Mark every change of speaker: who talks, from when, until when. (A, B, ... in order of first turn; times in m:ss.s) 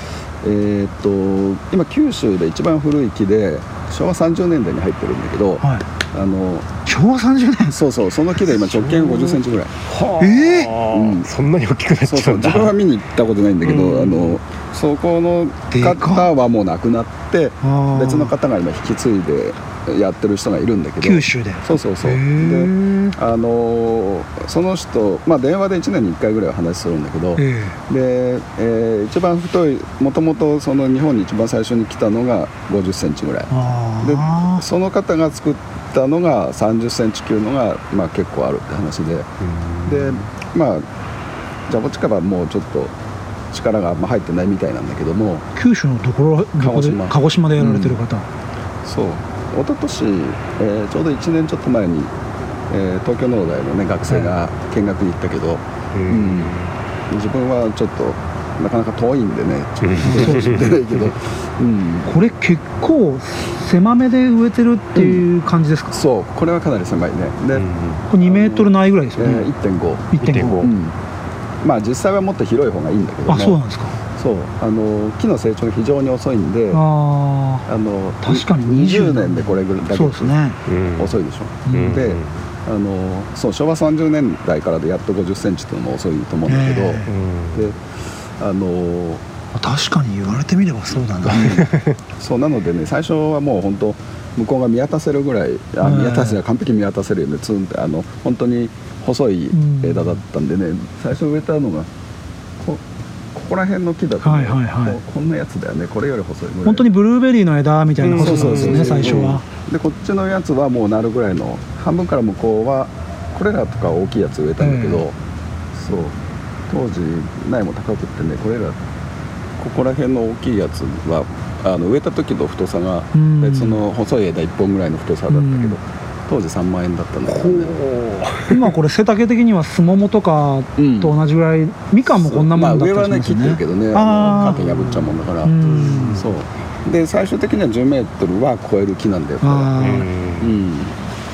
0:00.4-0:06.7 A
0:05.6-0:05.8 B
0:06.8-0:07.8 B
0:07.6-0:09.8 A
0:08.6-0:12.8 C
0:10.2-0:10.8 B
0:10.9-0:11.3 A
0:12.0-0:39.3 A
0:13.6-0:14.4 C
0:15.7-0:16.3 B
0:17.6-0:18.3 B
0:21.0-0:23.2 B
0:27.4-0:27.8 B
0:33.5-0:34.6 B
0:39.4-0:40.2 C
0:39.8-0:40.8 A
0:41.7-0:42.9 A
0:43.5-0:45.5 A
0:45.6-0:48.2 B
0:46.6-0:48.0 A
0:48.8-0:52.1 A
0:52.7-0:56.5 A
0:55.9-0:56.7 C
0:57.1-1:02.1 A
0:59.8-1:01.1 C
1:00.0-1:00.7 B
1:02.0-1:06.0 B
1:04.9-1:05.3 A
1:05.9-1:11.0 A
1:07.5-1:08.0 C
1:08.1-1:09.5 B
1:10.1-1:10.7 B
1:10.2-1:10.7 C
1:11.6-1:13.6 A
1:13.3-1:14.0 B
1:14.1-1:16.8 A
1:16.7-1:17.7 B
1:17.6-1:20.3 A
1:18.2-1:20.6 B
1:20.7-1:21.2 C
1:21.0-1:27.8 A
1:21.7-1:22.0 B
1:21.7-1:22.3 C
1:26.5-1:27.1 B
1:27.0-1:27.6 C
1:28.4-1:29.2 A
1:29.5-1:31.6 B
1:31.2-1:41.9 A
1:31.4-1:31.9 C
1:35.8-1:36.4 B
1:39.5-1:40.2 B
1:42.6-1:46.9 A
1:44.2-1:45.0 B
1:46.6-1:49.4 B
1:48.0-1:49.4 C
1:48.1-1:55.2 A
1:54.6-1:55.0 B
1:55.7-1:56.2 A
1:56.7-1:58.8 A
1:59.6-2:07.8 A
2:03.1-2:03.8 B
2:05.3-2:05.8 B
2:07.3-2:08.7 C
2:08.5-2:14.6 B
2:10.8-2:11.2 A
2:12.0-2:20.9 A
2:14.3-2:15.0 C
2:15.4-2:16.3 B
2:15.6-2:16.3 C
2:19.4-2:20.1 B
2:19.8-2:20.5 C